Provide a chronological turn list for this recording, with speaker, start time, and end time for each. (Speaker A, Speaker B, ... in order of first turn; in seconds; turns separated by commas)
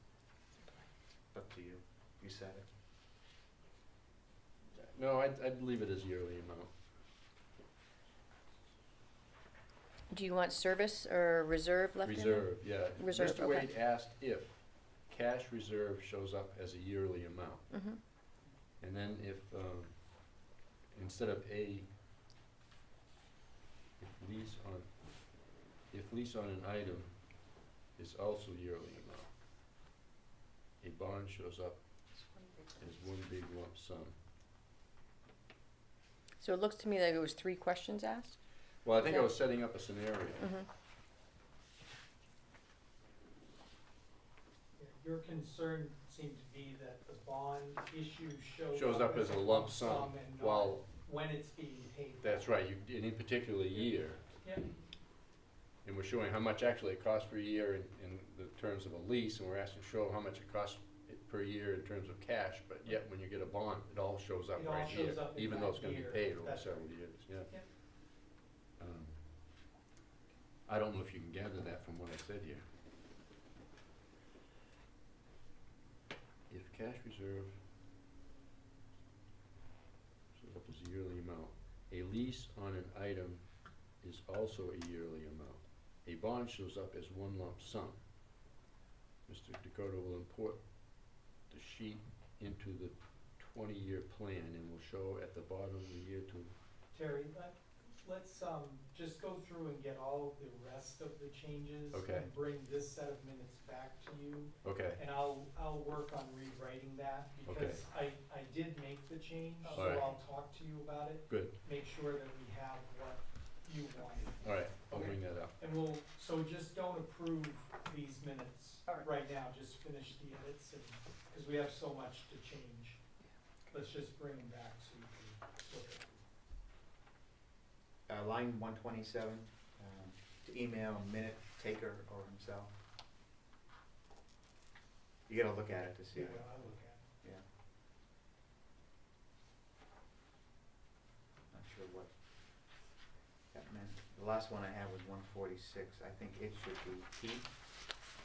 Speaker A: 1.3-2.7, Speaker B: 4.8-6.7, Speaker C: 10.1-13.7, Speaker B: 12.0-17.7, Speaker C: 17.7-18.0, Speaker B: 18.8-21.9, Speaker B: 24.0-27.4, Speaker B: 27.9-29.3, Speaker B: 30.8-31.9, Speaker B: 32.8-34.1, Speaker C: 36.4-38.4, Speaker B: 38.8-40.5, Speaker C: 39.0-39.3, Speaker C: 40.4-40.7, Speaker D: 44.8-52.5, Speaker B: 48.7-50.9, Speaker B: 52.2-54.2, Speaker D: 54.4-54.7, Speaker B: 55.8-67.6, Speaker D: 64.6-67.7, Speaker B: 68.8-69.3, Speaker B: 70.7-72.7, Speaker B: 76.5-77.6, Speaker B: 80.3-88.0, Speaker B: 89.3-96.5, Speaker D: 96.9-123.0, Speaker B: 101.9-102.3, Speaker B: 104.6-105.0, Speaker B: 107.5-107.8, Speaker C: 109.6-109.9, Speaker B: 109.7-110.2, Speaker B: 111.3-111.6, Speaker B: 114.4-115.6, Speaker D: 123.7-126.2, Speaker A: 128.1-132.7, Speaker A: 135.3-136.5, Speaker D: 136.2-137.1, Speaker A: 141.5-142.1, Speaker A: 143.5-147.5